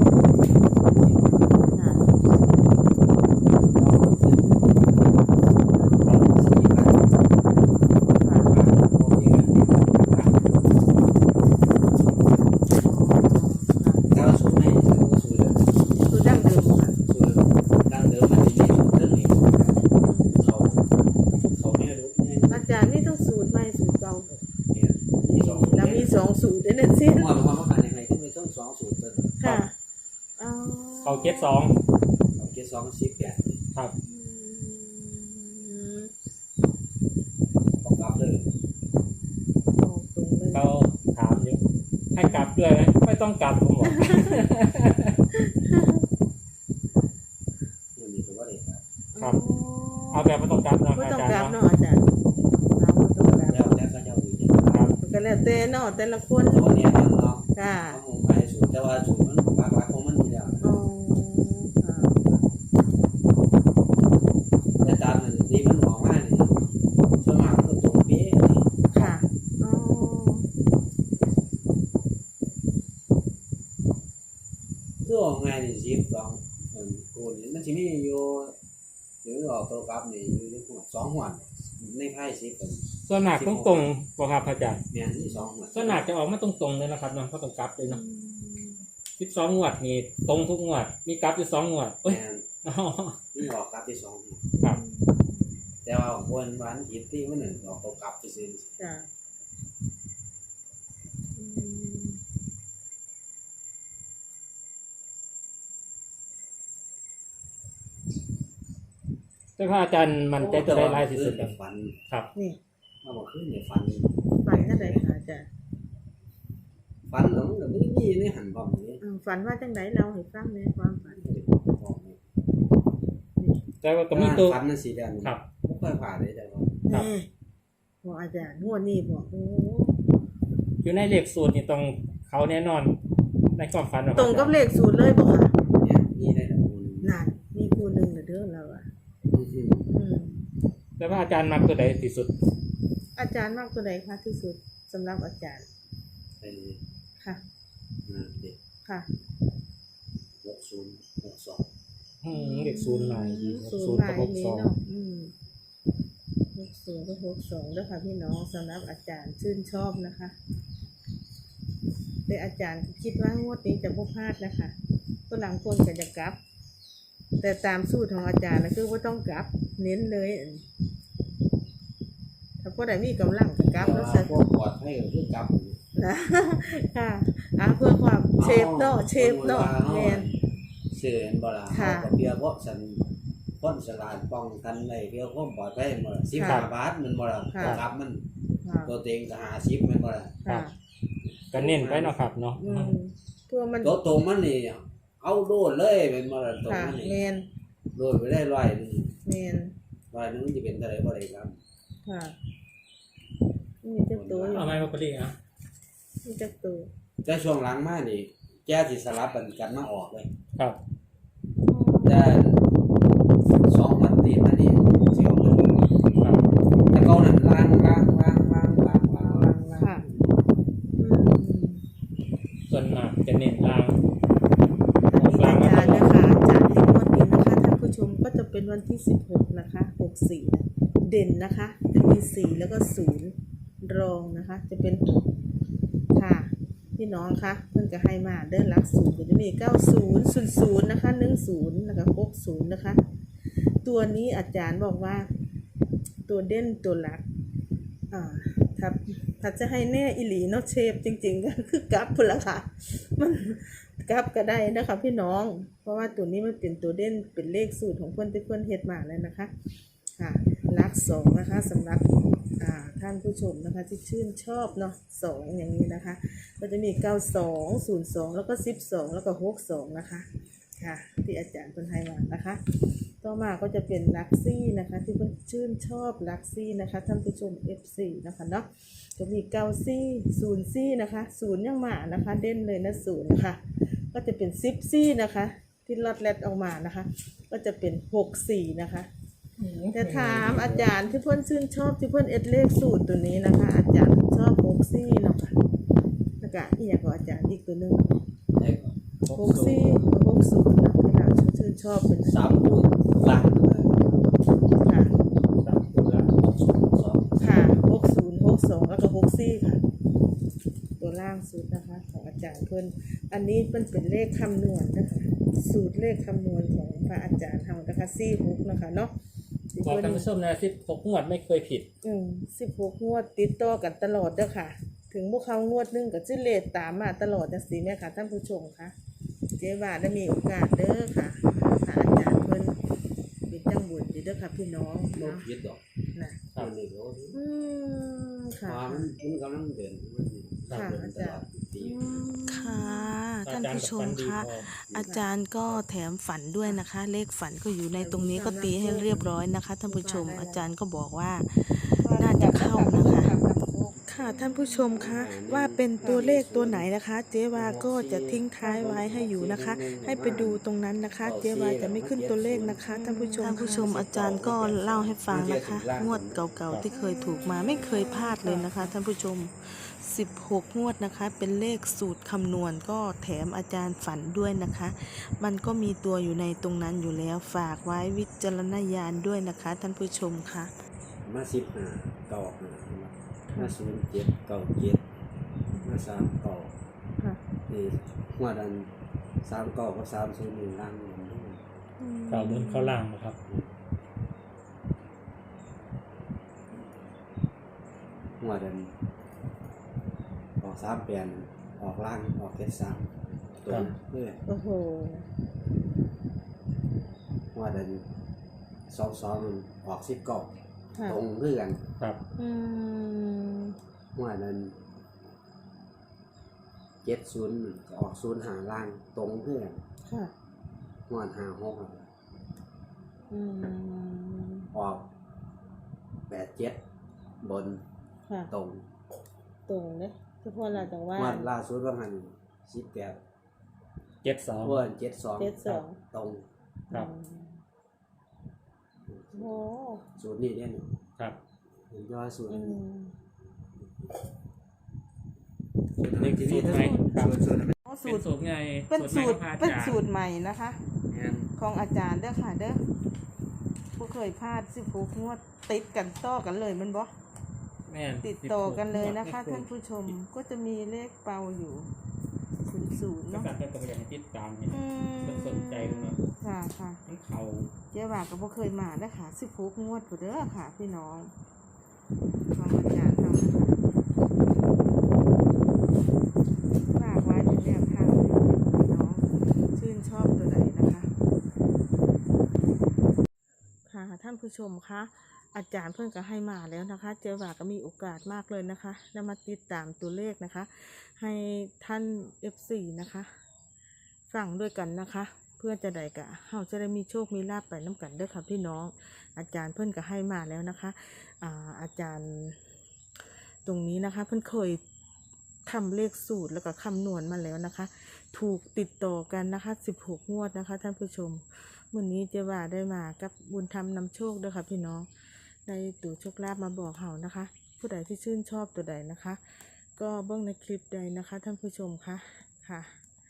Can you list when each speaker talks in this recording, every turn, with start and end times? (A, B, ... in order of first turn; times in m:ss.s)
0:00.6-0:01.5 A
0:01.7-0:02.1 B
0:03.6-0:05.2 A
0:05.8-0:06.2 B
0:06.1-0:07.1 A
0:08.2-0:08.6 B
0:08.5-0:10.3 A
0:12.8-0:14.1 B
0:14.1-0:19.8 A
0:16.1-0:17.0 B
0:20.0-0:20.4 B
0:20.3-0:20.9 A
0:21.5-0:22.6 A
0:22.5-0:24.4 B
0:24.7-0:26.2 A
0:25.4-0:27.4 B
0:27.1-0:29.4 A
0:29.4-0:29.7 B
0:30.4-0:31.6 B
0:31.0-0:31.8 C
0:32.4-0:33.6 A
0:34.0-0:36.1 B
0:37.8-0:38.5 A
0:39.7-0:40.6 B
0:40.5-0:41.6 C
0:42.1-0:45.2 C
0:42.2-0:42.5 B
0:43.9-0:44.4 B
0:45.3-0:46.0 B
0:48.0-0:48.8 A
0:49.1-0:50.3 B
0:50.1-0:51.6 C
0:50.9-0:52.1 B
0:52.8-0:53.8 B
0:53.4-0:54.8 A
0:54.7-0:54.9 C
0:55.0-0:56.7 B
0:56.4-1:00.7 A
0:57.6-0:58.0 B
1:00.6-1:02.3 B
1:04.8-1:06.6 A
1:07.2-1:08.8 A
1:08.9-1:10.5 B
1:15.0-1:18.6 A
1:19.2-1:23.9 A
1:23.0-1:24.8 C
1:24.9-1:26.1 A
1:25.2-1:25.5 B
1:25.7-1:28.0 C
1:27.9-1:28.8 B
1:29.2-1:33.3 C
1:32.0-1:32.5 A
1:33.3-1:34.5 A
1:34.6-1:35.4 B
1:35.8-1:38.8 A
1:38.8-1:39.1 B
1:41.4-1:42.2 B
1:49.6-1:51.6 C
1:50.4-1:52.0 A
1:53.0-1:55.1 A
1:54.4-1:55.5 B
1:57.1-1:59.0 A
1:59.0-2:01.2 B
2:01.2-2:02.2 A
2:03.8-2:04.6 C
2:04.1-2:06.8 A
2:06.9-2:07.3 B
2:08.0-2:10.0 B
2:10.8-2:13.0 C
2:13.5-2:14.6 C
2:14.2-2:15.6 B
2:15.8-2:17.1 A
2:17.0-2:18.9 B
2:19.3-2:19.9 A
2:19.9-2:20.4 B
2:21.0-2:22.3 C
2:23.2-2:25.7 B
2:26.4-2:26.8 A
2:28.1-2:28.6 A
2:30.4-2:31.7 A
2:32.2-2:34.7 C
2:32.3-2:35.3 B
2:36.5-2:40.4 B
2:42.3-2:44.8 B
2:45.3-2:46.4 B
2:47.4-2:50.6 B
2:52.6-2:54.4 B
2:53.8-2:55.8 A
2:56.0-3:00.3 B
2:58.4-3:00.4 A
3:00.9-3:03.1 A
3:01.7-3:02.1 B
3:03.6-3:08.2 A
3:06.4-3:06.7 B
3:06.4-3:06.7 C
3:07.5-3:07.8 B
3:08.6-3:08.9 B
3:08.8-3:10.4 A
3:10.4-3:10.7 B
3:11.2-3:12.3 A
3:11.5-3:13.0 C
3:12.6-3:14.0 B
3:13.8-3:17.2 A
3:16.7-3:17.5 B
3:17.9-3:19.2 A
3:19.2-3:19.7 B
3:20.1-3:21.6 A
3:22.0-3:22.4 B
3:23.8-3:24.8 B
3:24.1-3:24.8 A
3:24.5-3:25.4 C
3:26.2-3:26.9 B
3:27.2-3:30.3 A
3:31.7-3:32.3 B
3:32.0-3:32.6 A
3:33.7-3:35.8 A
3:36.2-3:36.4 C
3:36.9-3:40.3 A
3:39.8-3:40.1 B
3:41.0-3:41.8 B
3:42.7-3:44.0 C
3:45.1-3:55.3 B
3:45.1-3:46.2 C
3:56.1-4:03.0 B
4:03.8-4:05.3 B
4:06.3-4:07.2 B
4:08.1-4:19.5 B
4:20.2-4:22.1 B
4:22.6-4:30.3 B
4:30.8-4:49.1 B
4:49.9-4:55.6 B
4:50.0-4:50.9 A
4:56.4-4:58.2 B
4:58.6-5:00.1 A
4:59.3-5:02.4 B
5:02.2-5:04.0 A
5:04.8-5:05.1 B
5:05.6-5:06.3 C
5:06.4-5:07.4 A
5:07.4-5:09.8 B
5:11.0-5:19.1 B
5:19.7-5:20.3 B
5:19.8-5:21.9 C
5:22.0-5:28.9 B
5:29.6-5:32.8 B
5:33.5-5:35.5 B
5:35.1-5:35.8 A
5:36.2-5:36.4 B
5:36.6-5:37.4 A
5:37.3-5:39.2 B
5:38.6-5:42.3 A
5:40.7-5:43.2 B
5:42.3-5:53.4 D
5:43.4-5:44.7 C
5:44.9-5:45.3 B
5:48.0-5:49.3 B
5:49.9-5:50.6 B
5:52.0-5:54.7 B
5:54.1-5:58.6 D
5:54.8-5:56.9 A
5:56.0-5:56.3 B
5:57.5-6:00.6 A
5:58.6-5:59.2 B
5:59.2-6:01.0 D
6:00.1-6:03.9 B
6:01.2-6:02.9 A
6:02.9-6:20.7 D
6:03.5-6:06.6 A
6:07.0-6:08.9 B
6:21.2-6:25.0 A
6:25.8-6:26.7 A
6:27.7-6:28.9 A
6:29.4-6:31.6 A
6:32.0-6:33.0 B
6:32.3-6:33.4 C
6:38.4-6:38.9 A
6:40.6-6:44.4 A
6:44.5-6:45.2 B
6:47.5-6:48.1 A
6:48.9-6:51.8 A
6:51.0-6:51.2 B
6:52.4-6:53.8 B
6:54.2-6:54.8 A
6:57.0-6:59.8 A
7:00.1-7:00.3 B
7:01.1-7:02.1 A
7:03.3-7:04.7 B
7:04.7-7:05.1 A
7:06.3-7:06.8 A
7:07.4-7:07.8 A
7:08.5-7:08.8 A
7:09.7-7:11.5 B
7:10.7-7:13.2 A
7:14.2-7:14.8 C
7:14.6-7:16.5 A
7:15.4-7:16.0 B
7:16.9-7:17.6 B
7:19.1-7:19.6 A
7:19.3-7:20.0 B
7:20.2-7:21.0 A
7:21.9-7:22.8 A
7:22.5-7:23.1 B
7:26.0-7:27.8 A
7:26.2-7:27.3 C
7:27.8-7:28.3 B
7:28.0-7:30.0 C
7:28.9-7:30.8 B
7:31.1-7:31.5 A
7:31.6-7:32.8 B
7:34.0-7:37.1 B
7:37.9-7:40.2 C
7:38.2-7:41.9 B
7:42.7-7:43.5 B
7:43.3-7:46.3 C
7:44.7-7:47.0 B
7:47.1-7:47.7 C
7:47.9-7:51.3 B
7:52.5-7:53.8 B
7:56.9-8:01.1 B
8:03.9-8:13.3 B
8:14.3-8:22.6 B
8:23.6-8:24.8 B
8:25.7-8:35.1 B
8:35.7-8:39.4 B
8:40.0-8:43.0 B